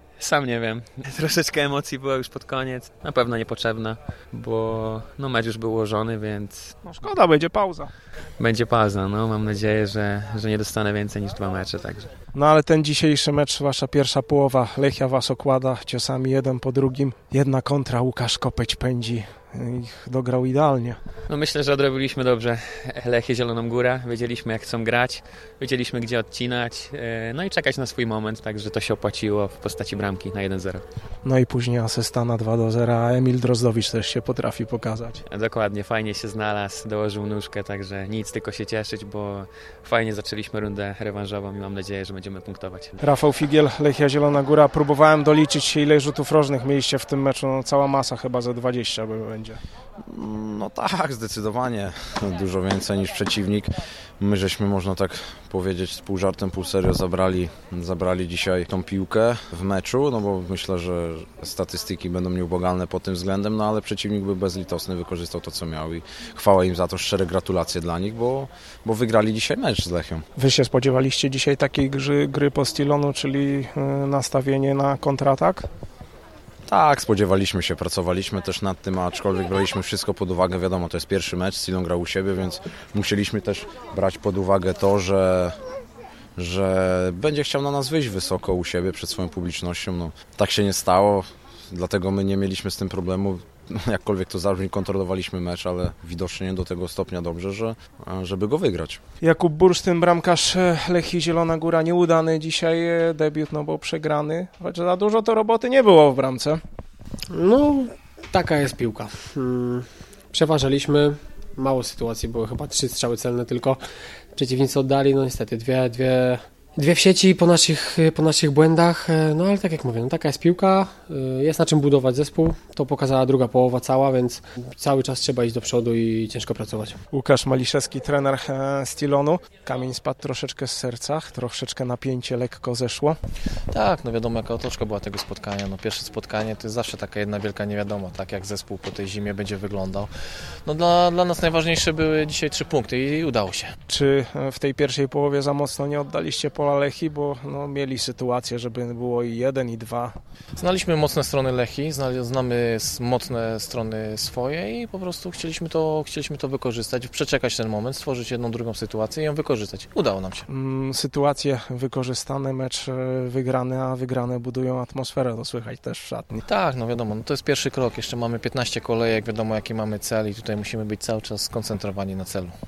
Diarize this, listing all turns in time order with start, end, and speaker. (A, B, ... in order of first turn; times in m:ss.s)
0:00.2-0:06.7 A
0:06.8-0:07.9 B
0:08.4-0:12.1 A
0:12.4-0:21.0 B
0:21.3-0:30.8 A
0:31.2-0:35.2 B
0:35.3-0:43.0 A
0:43.0-0:49.6 B
0:50.0-1:10.2 C
1:10.4-1:15.6 B
1:16.7-1:25.6 C
1:26.4-1:39.0 C
1:39.2-1:46.6 B
1:47.3-1:53.8 D
1:54.3-2:07.0 D
2:07.1-2:13.2 B
2:13.7-2:23.7 E
2:23.9-2:30.1 B
2:30.6-2:40.4 E
2:40.5-2:46.4 B
2:46.4-2:52.5 E